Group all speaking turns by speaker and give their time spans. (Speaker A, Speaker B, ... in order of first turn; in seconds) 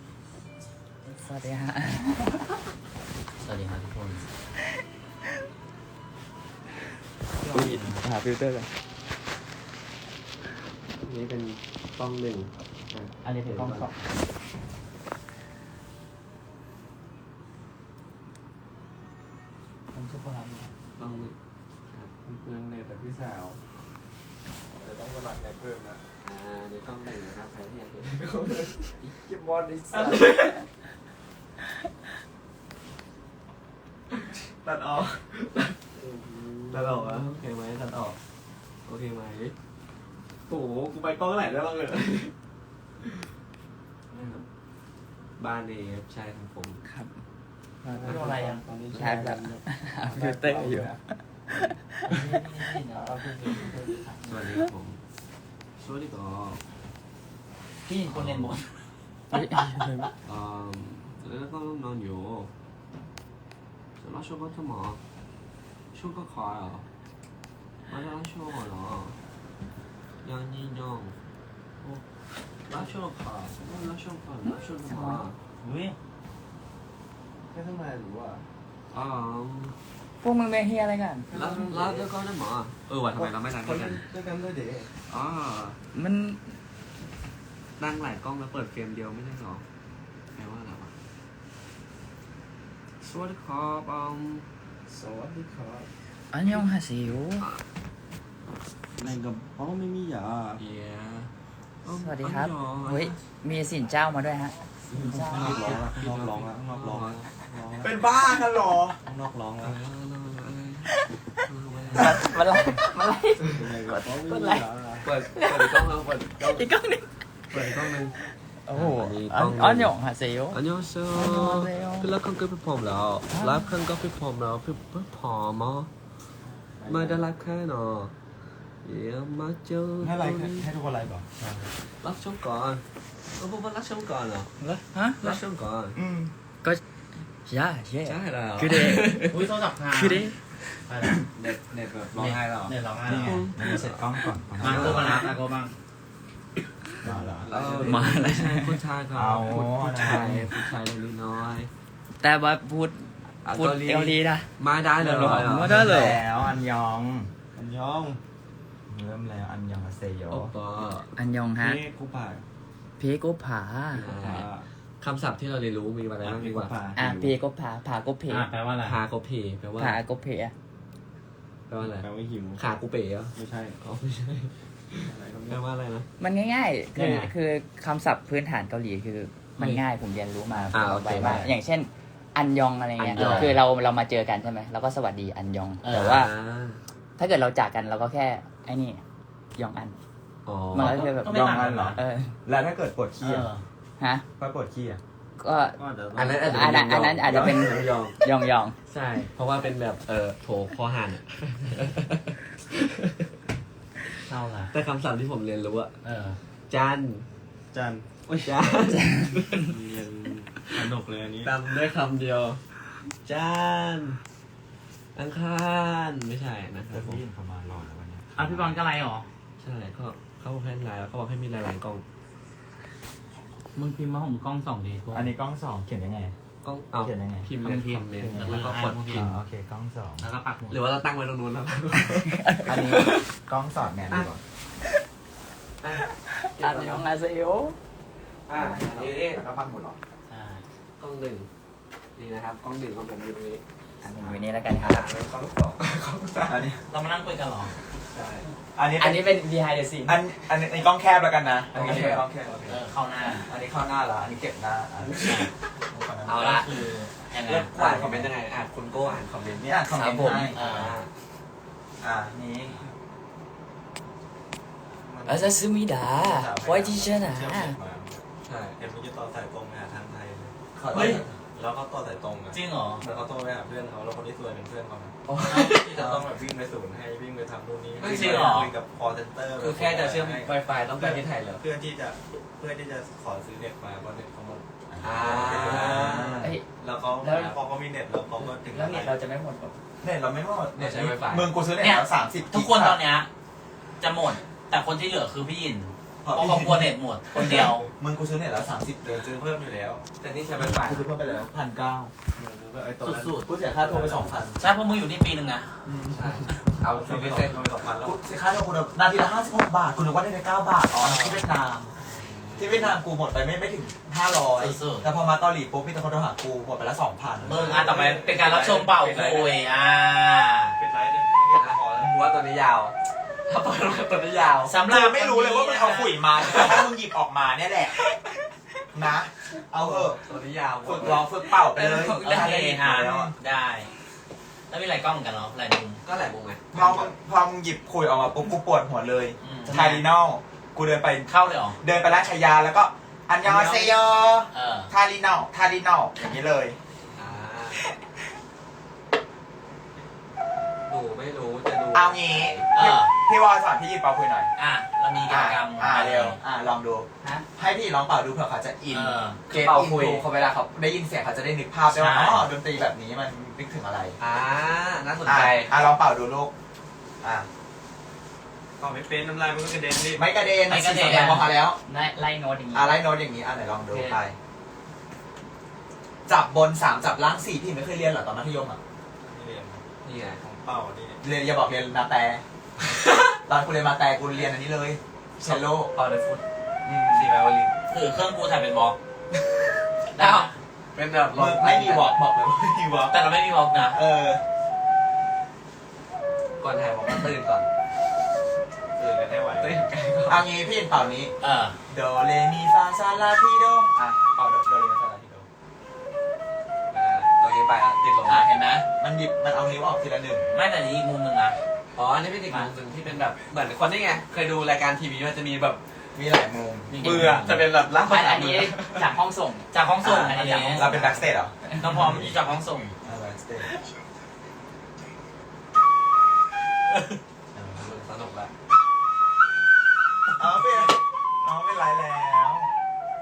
Speaker A: 1.0-2.5, 7.5-8.7, 19.9-20.7, 29.0-30.6, 46.8-47.1, 47.8-48.3, 48.9-52.1, 53.0-53.6, 59.3-60.1, 74.8-75.2, 80.2-81.3, 85.9-86.6, 96.3-97.5, 101.9-105.7, 111.9-114.6, 115.3-115.8, 116.4-117.0, 118.1-120.6, 121.1-122.1, 123.3-123.7, 134.6-135.4, 137.4-140.3, 147.8-148.8, 152.2-156.2, 161.2-161.8, 163.0-164.1, 166.9-168.5, 169.8-170.5, 176.2-186.3, 187.2-189.0, 189.6-190.0, 190.7-192.3, 194.0-194.2, 195.4-195.8, 196.4-198.8, 232.4-232.9, 236.4-237.8, 244.0-245.1, 249.0-250.2, 259.9-260.5, 265.2-267.8, 287.2-287.6, 288.4-289.8, 371.8-373.0, 373.9-374.2, 418.0-421.8
Speaker B: 3.4-4.3, 7.7-8.0, 13.2-13.9, 48.1-48.6, 52.1-54.3, 57.9-58.9, 75.6-75.9, 131.4-131.7, 139.3-140.3, 140.9-141.3, 142.1-143.4, 144.6-145.8, 168.3-169.0, 176.9-177.3, 183.1-183.6, 185.8-186.1, 190.8-191.9, 193.2-193.6, 204.3-204.7, 206.0-206.4, 218.3-219.3, 223.8-225.3, 227.6-229.3, 230.2-230.8, 240.3-240.6, 246.9-247.7, 252.7-253.5, 255.2-255.5, 256.4-257.8, 260.5-260.9, 270.9-271.2, 272.5-273.0, 275.5-275.8, 278.0-278.7, 291.8-293.3, 294.0-297.9, 303.0-303.4, 304.6-305.8, 314.5-315.0, 317.4-320.8, 324.7-326.5, 332.2-333.9, 334.7-336.0, 339.4-340.0, 341.3-341.8, 344.5-344.9, 352.7-353.1, 354.6-356.4, 358.9-359.4, 361.9-362.4, 370.7-371.5, 387.9-389.0, 390.1-390.5, 393.1-394.0, 401.4-401.8, 410.5-411.6, 416.9-417.5, 419.7-420.9, 421.8-422.9
Speaker C: 7.4-7.8, 11.0-13.9, 21.0-21.4, 26.2-28.3, 36.0-38.2, 38.9-39.5, 40.5-42.3, 45.4-46.8, 54.2-55.0, 55.8-56.6, 60.2-62.5, 64.0-65.0, 65.9-66.9, 67.9-69.2, 70.2-71.2, 72.7-75.4, 78.9-79.8, 81.3-84.0, 85.1-85.8, 87.8-89.6, 90.3-90.9, 93.0-94.5, 100.5-101.3, 101.8-103.2, 105.3-107.3, 109.6-110.9, 111.4-112.3, 115.0-116.6, 117.5-118.2, 118.7-119.9, 120.5-125.9, 126.8-128.1, 128.8-130.7, 132.0-132.8, 133.4-134.5, 135.2-136.0, 138.0-139.4, 143.1-145.3, 147.5-151.7, 153.4-155.8, 160.3-161.1, 164.0-164.5, 165.0-167.1, 168.8-170.0, 171.7-174.5, 175.5-176.1, 180.7-181.5, 183.0-183.6, 185.9-186.8, 190.4-191.0, 196.1-198.1, 198.9-203.3, 204.7-205.9, 206.7-207.3, 208.4-209.7, 211.4-212.6, 213.2-214.2, 215.1-217.2, 219.6-222.0, 226.6-229.4, 230.7-233.2, 235.8-237.0, 238.5-239.4, 241.0-241.5, 242.2-243.6, 244.6-245.8, 248.1-248.5, 251.7-252.3, 255.0-255.5, 256.2-256.8, 257.4-259.7, 260.6-261.1, 268.4-268.8, 275.3-276.2, 278.0-278.5, 279.6-281.6, 285.0-286.5, 290.7-291.6, 300.2-301.1, 306.1-307.7, 310.9-311.5, 312.0-313.0, 318.0-319.4, 321.5-322.9, 323.5-324.7, 329.7-332.9, 336.0-337.1, 347.1-347.8, 350.9-352.7, 359.5-360.7, 364.2-365.9, 380.0-380.4, 382.8-383.4, 385.4-386.4, 387.1-387.7, 390.1-392.2, 396.6-397.7, 399.6-400.4, 406.9-408.5, 411.9-415.8, 417.0-418.6, 427.8-428.5
Speaker D: 22.2-23.6, 24.8-26.0, 28.1-28.8, 29.9-30.5, 34.5-35.8, 36.7-37.3, 44.1-44.4, 47.9-51.0, 77.5-78.5, 81.3-82.1, 83.1-84.9, 94.9-95.9, 99.0-100.6, 104.9-108.0, 109.0-109.8, 113.5-115.1, 126.8-127.3, 141.3-142.8, 147.0-148.2, 150.0-150.3, 157.5-158.2, 161.6-162.4, 163.9-164.7, 166.2-167.3, 171.8-172.6, 173.3-173.8, 174.9-175.6, 195.8-196.8, 207.7-208.6, 209.6-211.5, 245.8-246.7, 252.4-252.7, 265.0-268.2, 268.8-289.1, 299.3-300.0, 302.3-304.5, 306.8-308.2, 317.5-319.5, 320.8-322.4, 368.8-370.4, 379.2-379.8, 380.4-381.2, 399.2-399.8, 417.7-418.5
Speaker E: 107.8-109.0, 130.0-131.3, 135.9-136.3, 143.0-145.3, 147.0-147.5, 149.1-150.5, 155.1-157.3, 158.9-160.5, 191.1-193.5, 194.4-195.0, 216.9-218.8, 225.1-226.3, 227.0-227.5, 228.1-230.3, 232.7-234.4, 238.8-239.9, 246.5-246.8, 248.7-249.3, 250.1-252.8, 253.4-255.4, 255.9-256.7, 257.8-258.3, 259.5-260.7, 262.0-262.8, 270.8-271.3, 275.9-276.3, 284.9-286.6, 290.0-293.0, 296.2-299.6, 300.5-302.1, 303.4-304.6, 305.8-306.3, 308.0-311.9, 312.6-317.9, 324.9-328.0, 328.9-330.2, 330.8-333.3, 336.7-341.3, 341.8-346.8, 351.9-354.5, 355.2-364.2, 365.2-366.5, 367.2-367.5, 370.1-371.8, 372.7-374.4, 376.2-378.8, 381.2-382.4, 383.5-385.9, 386.8-387.3, 391.3-393.2, 393.9-394.4, 399.0-399.4, 400.3-401.3, 401.9-405.5, 408.2-410.5, 416.1-417.7, 420.0-422.3, 423.0-423.7, 427.5-427.9, 430.3-432.7